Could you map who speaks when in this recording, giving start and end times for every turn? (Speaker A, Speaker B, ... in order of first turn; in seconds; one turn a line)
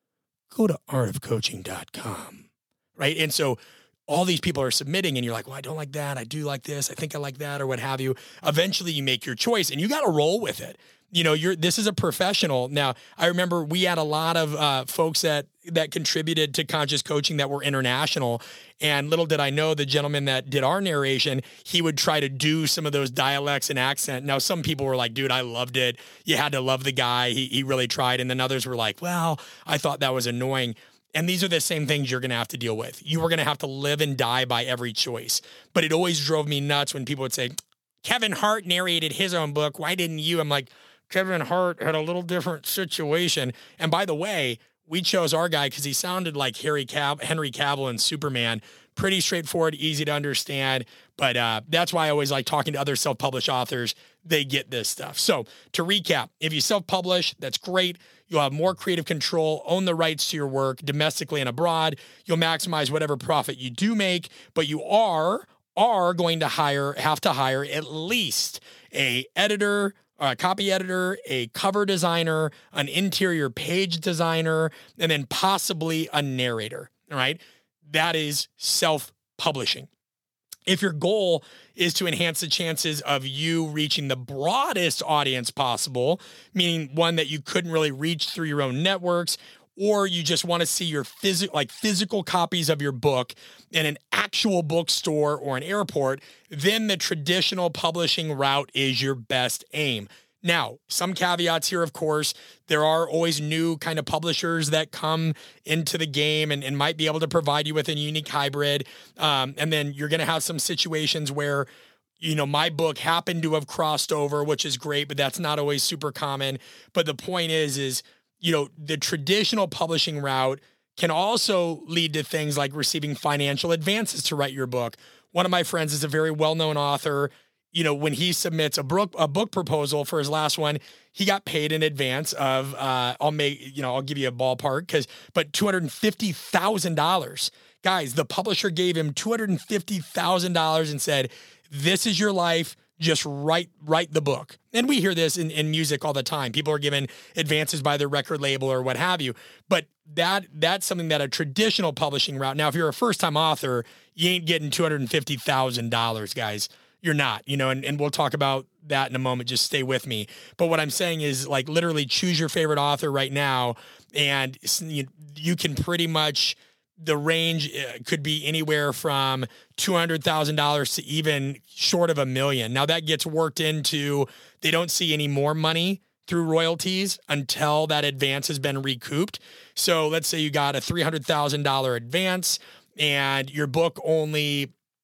Speaker A: 0.5-79.9
Speaker A: 80.7-111.7
Speaker A: 112.2-184.7